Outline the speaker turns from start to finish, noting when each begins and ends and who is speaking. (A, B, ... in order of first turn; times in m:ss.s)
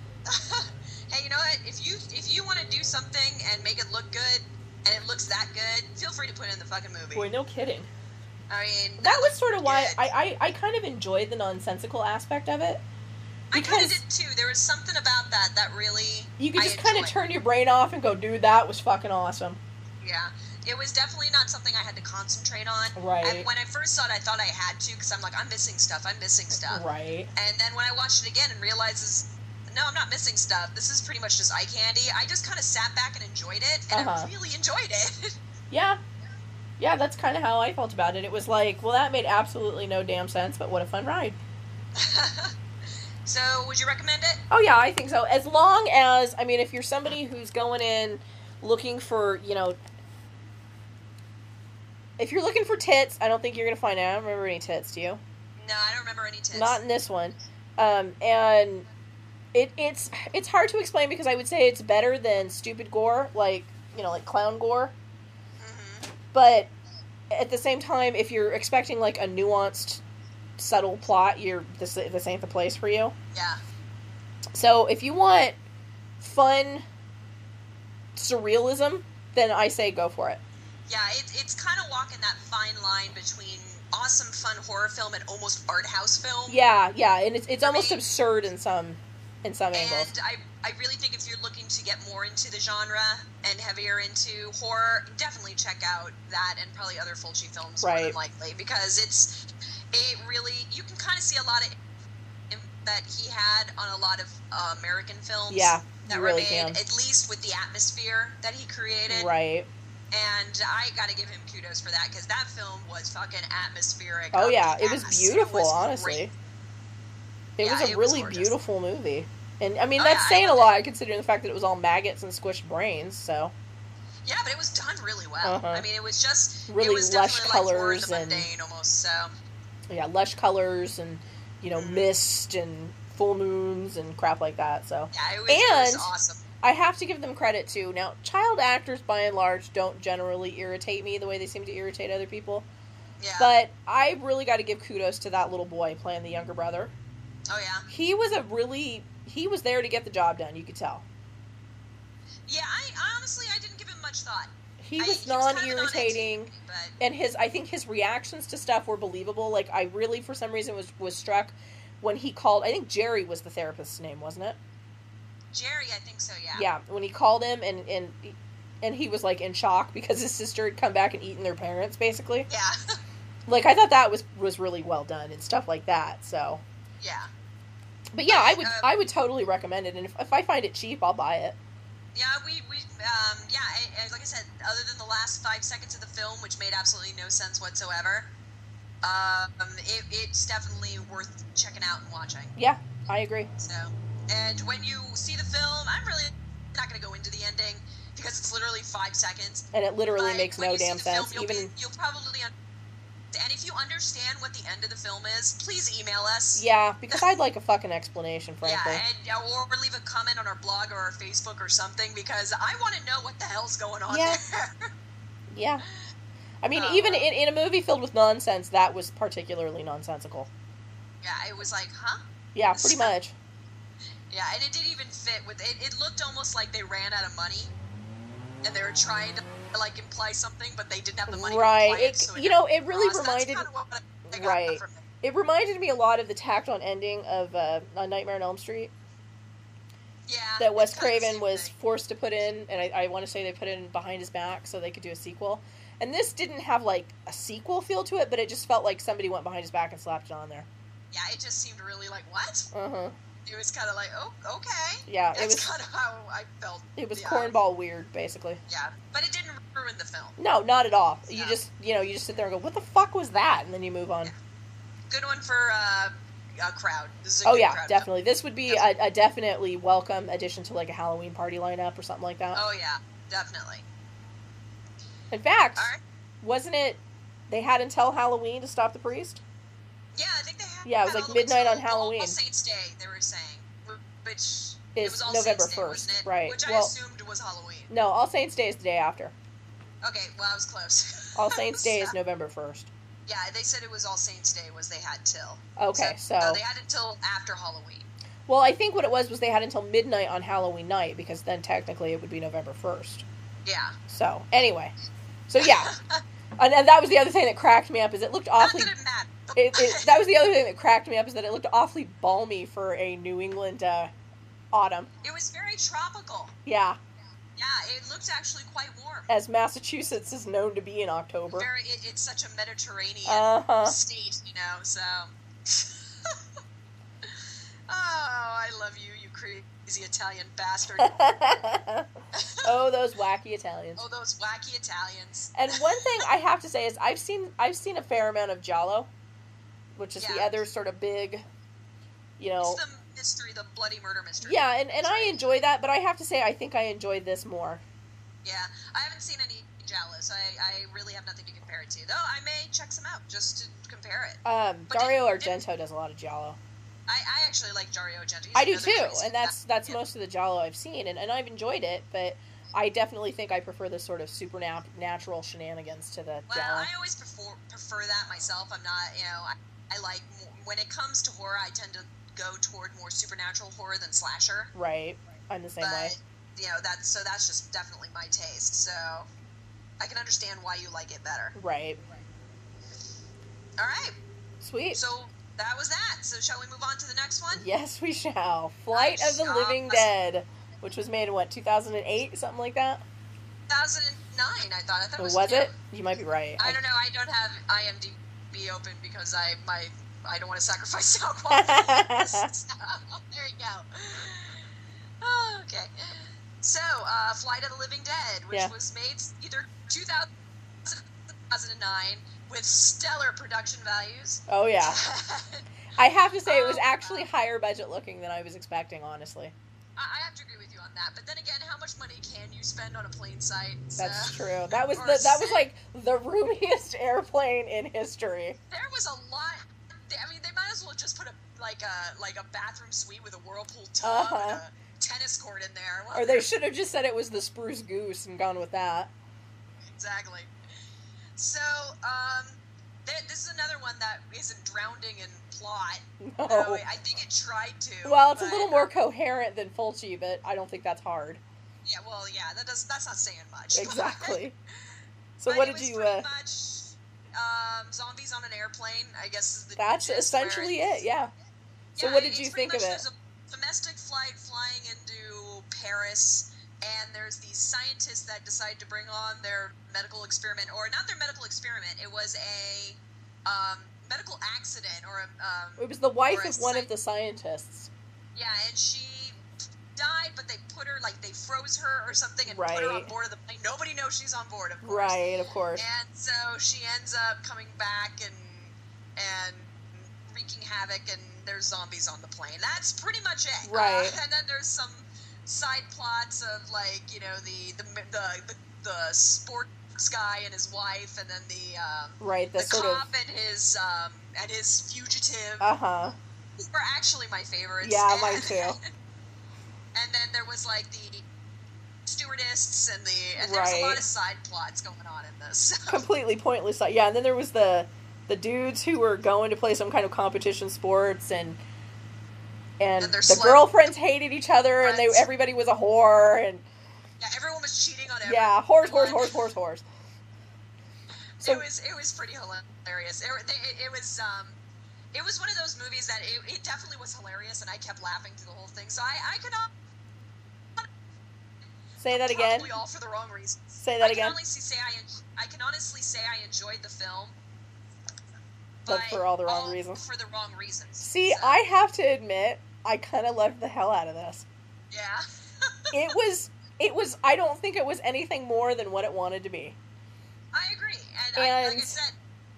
0:00.2-0:07.3 A
0:07.1-0:07.9 B
0:08.5-0:10.0 A
0:09.0-0:12.8 B
0:13.5-0:17.1 A
0:13.5-0:14.0 B
0:16.4-0:19.6 B
0:20.0-0:26.8 A
0:23.0-0:23.5 B
0:26.6-0:27.3 B
0:27.3-0:35.4 A
0:33.9-0:34.3 B
0:35.7-0:36.0 B
0:36.8-0:41.4 B
0:41.9-0:42.6 A
0:43.2-0:44.4 A
0:44.5-0:49.8 B
0:52.2-0:55.2 B
0:55.6-0:56.8 A
0:56.5-0:58.8 B
0:59.5-1:04.9 B
1:05.6-1:06.1 A
1:06.3-1:06.7 B
1:07.3-1:10.0 B
1:10.6-1:13.1 B
1:13.3-1:13.6 A
1:14.5-1:15.6 B
1:16.2-1:16.8 B
1:18.2-1:20.4 B
1:20.9-1:26.6 A
1:26.5-1:30.1 B
1:27.6-1:28.1 A
1:29.7-1:41.8 A
1:37.8-1:38.2 B
1:42.5-1:49.3 A
1:45.5-1:46.8 B
1:49.1-1:49.7 B
1:50.1-1:56.3 A
1:54.3-1:56.3 B
1:57.6-2:03.5 B
1:57.6-1:58.5 A
2:00.0-2:00.7 A
2:04.2-2:09.3 A
2:05.4-2:05.8 B
2:06.7-2:08.5 B
2:09.9-2:16.1 B
2:11.7-2:12.1 A
2:15.1-2:16.4 A
2:16.6-2:22.7 B
2:23.2-2:23.5 A
2:23.4-2:26.9 B
2:27.5-2:27.9 A
2:27.9-2:31.0 B
2:32.5-2:37.0 A
2:34.8-2:44.6 B
2:45.5-2:46.7 A
2:46.5-2:52.5 B
2:52.5-2:53.0 A
2:53.5-2:56.6 B
2:57.0-2:57.3 A
2:58.1-3:01.6 B
2:58.3-2:58.9 A
3:02.1-3:08.3 A
3:09.0-3:12.5 A
3:12.6-3:13.5 B
3:13.6-3:22.5 A
3:19.7-3:21.7 B
3:23.3-3:27.2 A
3:26.5-3:29.0 B
3:28.6-3:34.9 A
3:34.1-3:34.4 B
3:35.5-3:35.8 B
3:36.6-3:40.5 B
3:36.7-3:37.3 A
3:41.2-3:42.2 A
3:42.5-3:43.3 B
3:42.7-3:43.1 A
3:44.3-3:47.7 A
3:48.6-3:55.0 A
3:51.3-3:53.7 B
3:54.3-3:58.9 B
4:00.3-4:01.7 A
4:00.6-4:10.7 B
4:11.1-4:12.7 A
4:12.7-4:13.1 B
4:13.4-4:17.6 A
4:15.1-4:15.7 B
4:17.0-4:18.6 B
4:18.7-4:20.4 A
4:20.4-4:24.3 B
4:21.3-4:21.6 A
4:25.1-4:28.1 A
4:27.4-4:32.6 B
4:32.5-4:33.8 A
4:35.3-4:35.9 B
4:35.8-4:36.0 A
4:36.4-4:39.4 B
4:40.1-4:47.9 A
4:40.8-4:42.4 B
4:44.9-4:46.9 B
4:47.9-4:49.3 B
4:50.0-4:52.1 A
4:51.3-4:52.9 B
4:53.3-4:58.1 A
4:55.8-4:56.6 B
4:58.5-5:03.2 B
5:03.6-5:04.0 A
5:04.1-5:04.9 B
5:05.5-5:05.9 B
5:05.6-5:06.2 A
5:06.6-5:08.9 B
5:08.6-5:10.2 A
5:09.5-5:14.1 B
5:14.7-5:15.1 B
5:15.2-5:16.5 A
5:16.6-5:17.0 B
5:17.6-5:19.3 A
5:19.3-5:21.7 B
5:21.5-5:26.4 A
5:23.2-5:24.0 B
5:27.9-5:31.2 A
5:31.0-5:32.1 B
5:32.3-5:32.7 A
5:32.6-5:34.0 B
5:34.0-5:36.2 A
5:35.5-5:39.1 B
5:39.9-5:41.4 B
5:40.2-5:40.6 A
5:42.4-5:42.8 B
5:42.6-5:45.4 A
5:44.4-5:47.8 B
5:48.4-5:55.6 A
5:54.4-5:56.6 B
5:57.1-6:00.0 A
5:58.5-6:06.9 B
6:06.5-6:14.7 A
6:14.7-6:16.1 B
6:15.8-6:19.3 A
6:20.0-6:21.5 A
6:21.5-6:22.0 B
6:23.8-6:24.2 A
6:24.6-6:25.0 B
6:24.9-6:27.6 A
6:27.5-6:33.0 B
6:28.9-6:30.1 A
6:33.7-6:35.7 A
6:35.2-6:36.8 B
6:36.6-6:44.7 A
6:41.5-6:42.5 B
6:45.2-6:50.3 A
6:50.8-6:55.7 A
6:54.5-6:55.0 B
6:56.0-6:59.5 B
6:56.4-6:57.2 A
7:00.0-7:05.6 A
7:04.0-7:08.6 B
7:08.7-7:16.5 A
7:14.0-7:14.6 B
7:16.1-7:19.1 B
7:19.8-7:20.5 A
7:21.4-7:28.9 A
7:26.2-7:26.8 B
7:28.0-7:31.4 B
7:31.8-7:34.4 A
7:33.7-7:34.6 B
7:35.4-7:36.3 B
7:35.5-7:40.9 A
7:39.8-7:41.3 B
7:41.9-7:56.9 A
7:42.0-7:43.0 B
7:55.8-7:57.9 B
7:58.3-7:59.4 A
7:59.9-8:05.2 A
8:02.5-8:03.1 B
8:04.8-8:05.8 B
8:05.8-8:25.7 A
8:13.6-8:14.2 B
8:22.2-8:23.0 B
8:25.6-8:26.2 B
8:26.6-8:28.9 A
8:27.8-8:28.8 B
8:29.9-8:31.2 A
8:32.0-8:36.0 A
8:33.4-8:34.0 B
8:35.9-8:41.6 B
8:42.8-8:46.6 B
8:43.0-8:43.7 A
8:44.8-8:45.2 A
8:47.2-8:49.4 A
8:48.2-8:49.8 B
8:51.4-8:54.6 A
8:55.1-8:59.7 A
9:02.0-9:02.7 B
9:02.1-9:07.4 A
9:03.7-9:04.4 B
9:08.8-9:11.6 A
9:08.9-9:10.0 B
9:11.0-9:14.4 B
9:14.9-9:16.1 A
9:15.9-9:19.8 B
9:20.5-9:22.2 A
9:21.4-9:22.0 B